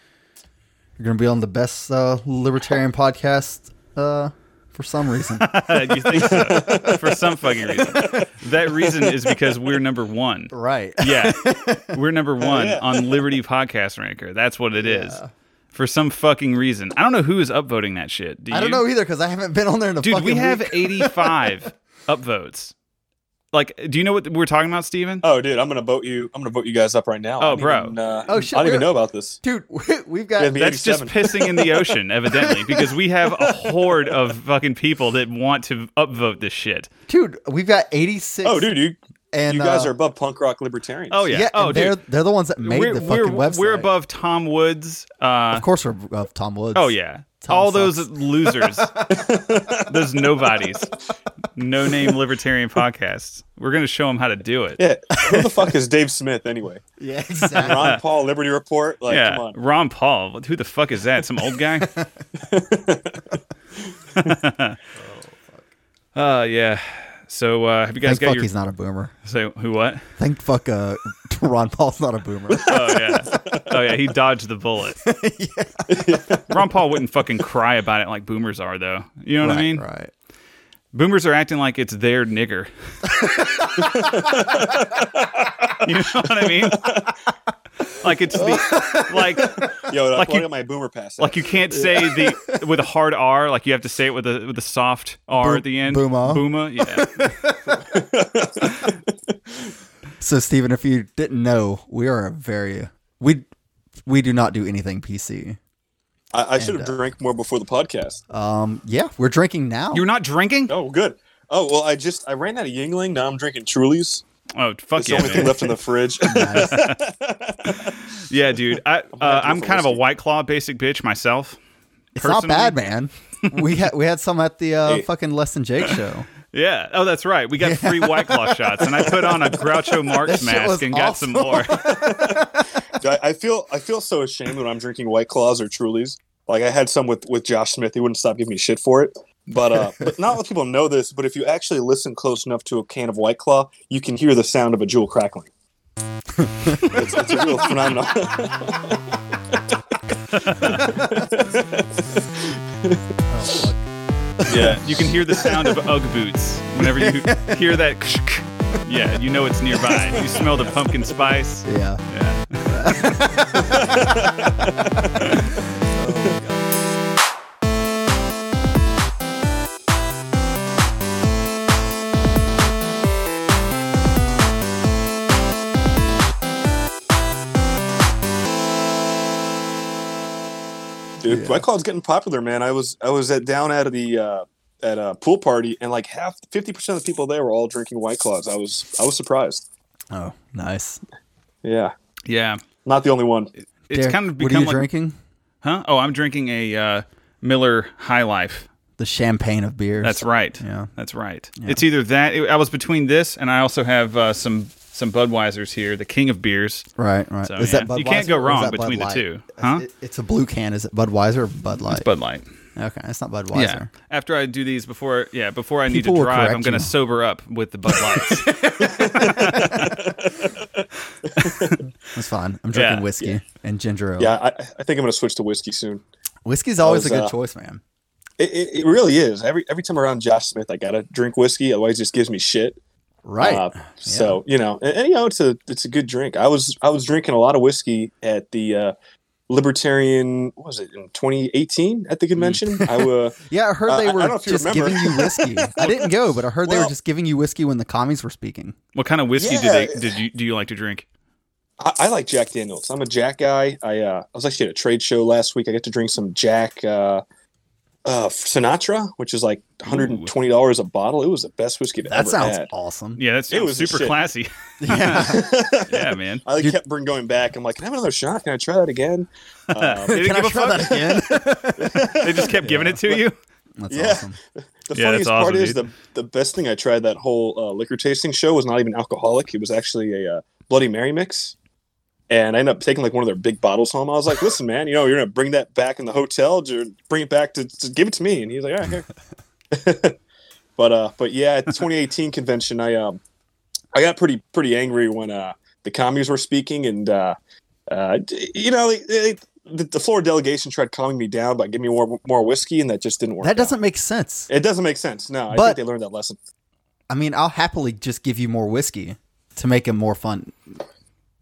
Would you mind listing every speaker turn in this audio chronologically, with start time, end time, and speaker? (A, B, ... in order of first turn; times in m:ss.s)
0:01.0-0:07.0 A
0:05.4-0:15.2 B
0:06.3-0:06.9 C
0:07.7-0:08.3 A
0:10.5-0:12.0 A
0:12.4-0:13.2 C
0:14.8-0:15.3 A
0:15.7-0:18.8 B
0:18.5-0:21.7 A
0:20.0-0:22.7 B
0:23.5-0:25.2 B
0:25.2-0:29.4 C
0:27.4-0:28.0 B
0:28.3-0:28.9 A
0:29.4-0:30.8 A
0:30.4-0:31.7 C
0:30.5-0:36.9 B
0:32.3-0:32.9 A
0:37.1-0:38.7 A
0:38.4-0:41.2 C
0:39.3-0:39.9 A
0:41.1-0:42.0 B
0:41.3-0:43.9 A
0:42.6-0:45.6 B
0:45.5-0:49.4 A
0:46.7-0:48.9 B
0:49.1-0:50.6 C
0:49.9-0:50.9 B
0:51.5-0:54.8 B
0:54.8-0:56.8 C
0:55.2-0:55.6 A
0:57.0-0:58.0 A
0:57.5-0:59.6 C
0:57.7-0:58.0 B
0:59.1-1:01.9 B
1:01.8-1:02.1 A
1:02.4-1:03.4 C
1:04.2-1:04.8 B
1:05.0-1:05.6 A
1:06.1-1:08.5 B
1:08.0-1:09.1 A
1:09.2-1:10.0 B
1:10.2-1:13.6 A
1:12.5-1:13.6 C
1:12.6-1:15.0 B
1:15.0-1:16.1 A
1:15.9-1:16.6 C
1:16.5-1:19.8 B
1:19.4-1:20.1 A
1:20.9-1:22.7 B
1:23.1-1:24.2 A
1:23.7-1:25.7 C
1:25.8-1:27.0 B
1:26.8-1:27.1 C
1:28.0-1:30.5 B
1:28.3-1:29.0 C
1:28.6-1:29.2 A
1:29.7-1:31.4 C
1:31.2-1:37.3 B
1:31.7-1:32.6 A
1:35.4-1:37.8 A
1:37.7-1:39.0 C
1:40.2-1:43.5 A
1:44.0-1:45.6 A
1:46.3-1:48.2 C
1:46.6-1:47.0 A
1:48.3-1:50.0 A
1:49.9-1:50.7 B
1:50.7-1:54.2 C
1:54.6-1:57.0 B
1:55.0-1:57.9 C
1:56.2-1:56.8 A
1:57.8-2:01.6 B
1:59.2-2:00.0 C
2:02.1-2:06.3 A
2:02.2-2:02.8 B
2:06.5-2:11.9 B
2:07.6-2:08.6 A
2:10.2-2:12.7 A
2:11.7-2:25.5 C
2:26.4-2:28.1 A
2:26.9-2:29.0 C
2:30.3-2:31.0 B
2:30.6-2:33.1 C
2:33.3-2:33.8 A
2:34.4-2:34.8 A
2:34.5-2:43.1 B
2:35.4-2:35.7 C
2:36.8-2:37.6 A
2:39.8-2:40.7 A
2:41.6-2:42.0 A
2:42.6-2:44.7 A
2:43.5-2:46.3 C
2:45.5-2:46.6 A
3:01.2-3:09.6 C
3:01.3-3:01.6 A
3:10.1-3:11.0 A
3:11.6-3:11.9 C
3:12.2-3:12.6 B
3:12.8-3:13.5 C
3:13.9-3:14.9 B
3:13.9-3:15.2 A
3:15.6-3:18.7 B
3:19.0-3:20.9 A
3:20.0-3:26.8 B
3:27.0-3:32.1 A
3:27.4-3:29.8 B
3:31.9-3:32.4 B
3:32.8-3:33.9 A
3:33.5-3:39.9 B
3:35.9-3:36.9 A
3:37.9-3:40.0 A
3:38.8-3:41.8 C
3:41.4-3:41.7 B
3:42.1-3:44.3 A
3:42.7-3:43.1 B
3:44.2-3:46.0 C
3:46.4-3:47.8 A
3:46.8-3:47.3 C
3:48.4-3:52.8 C
3:53.2-3:54.4 A
3:53.4-3:58.9 C
3:59.5-4:06.9 C
4:02.4-4:02.6 B
4:02.8-4:08.7 A
4:08.9-4:11.0 B
4:09.4-4:10.1 C
4:11.8-4:17.2 C
4:18.0-4:22.7 C
4:19.9-4:20.3 B
4:22.1-4:23.2 A
4:23.2-4:26.4 B
4:23.5-4:24.2 C
4:24.8-4:25.7 A
4:25.1-4:32.5 C
4:29.7-4:31.0 B
4:30.1-4:33.0 A
4:32.0-4:33.4 B
4:33.8-4:34.4 A
4:33.9-4:41.5 C
4:34.9-4:35.8 B
4:42.3-4:49.1 C
4:49.7-4:50.2 C
4:50.8-4:53.2 C
4:53.9-4:57.4 C
4:57.9-5:03.7 C
5:03.4-5:04.5 A
5:04.5-5:06.4 C
5:05.5-5:05.8 A
5:07.1-5:10.8 A